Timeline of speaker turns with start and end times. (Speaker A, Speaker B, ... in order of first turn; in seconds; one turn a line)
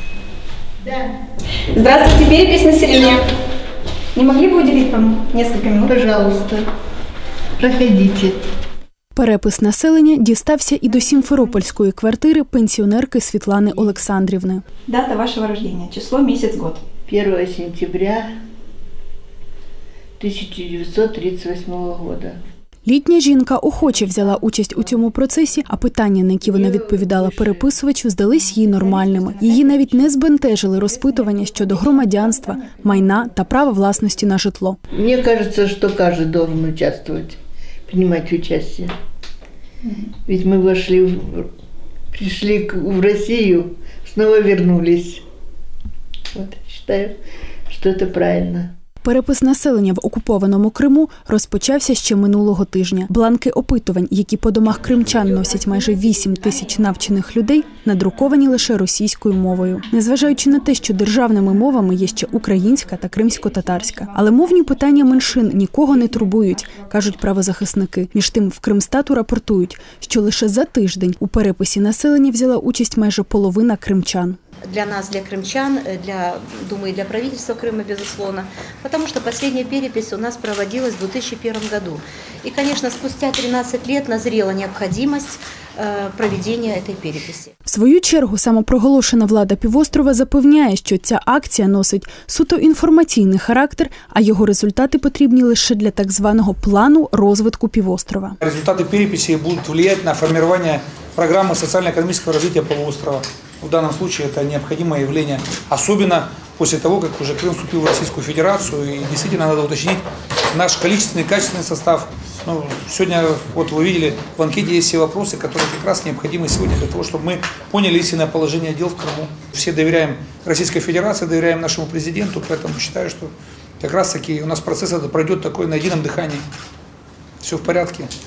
Speaker A: 1.7-3.2
Speaker A: 4.1-5.9
Speaker B: 5.9-6.6
Speaker B: 7.6-8.4
Speaker C: 9.1-14.6
Speaker A: 14.8-16.8
Speaker B: 17.1-18.3
Speaker B: 20.2-22.4
Speaker C: 22.9-34.8
Speaker B: 26.5-27.6
Speaker B: 34.9-38.9
Speaker B: 40.2-41.5
Speaker B: 42.1-45.2
Speaker B: 46.3-47.2
Speaker B: 47.7-48.7
Speaker C: 49.0-74.4
Speaker D: 74.7-87.5
Speaker C: 87.7-98.4
Speaker E: 98.4-126.4
Speaker E: 127.4-128.1